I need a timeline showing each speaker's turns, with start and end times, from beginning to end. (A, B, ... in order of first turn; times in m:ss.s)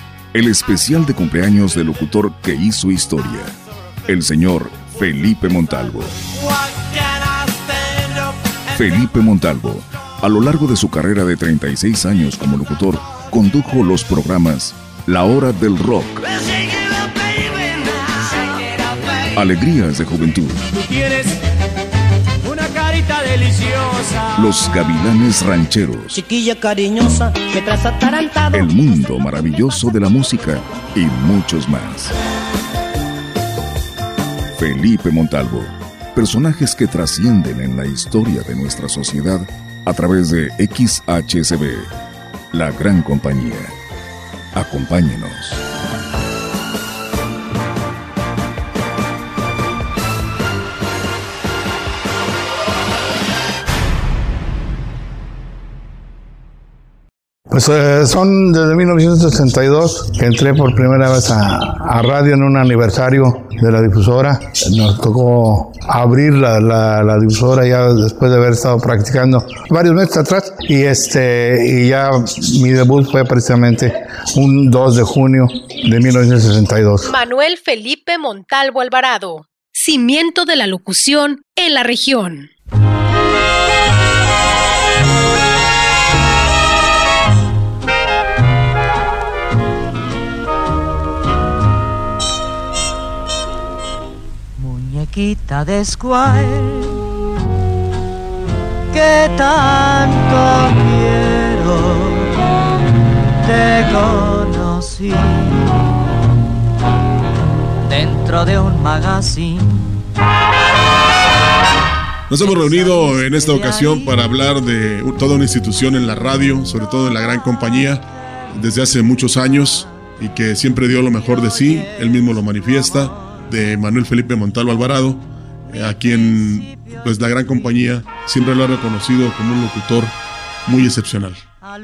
0:00.3-0:03.6 A
0:04.1-0:06.2 A
0:06.3-0:08.5 B
0:08.7-0:16.2 A
0:16.3-0:19.4 B
0:19.3-0:20.6 A
0:20.7-0:21.4 B
0:22.4-0:24.4 B
0:24.4-0:26.2 A
0:26.1-0:28.7 C
0:28.5-0:32.1 A
0:34.6-0:41.9 A
0:42.5-0:43.7 A
0:44.5-0:45.6 A
0:57.5-1:17.1 D
1:17.0-1:22.5 E
1:34.6-1:37.0 B
1:38.9-1:42.3 B
1:43.4-1:45.9 B
1:47.8-1:50.0 B
1:52.3-2:11.4 F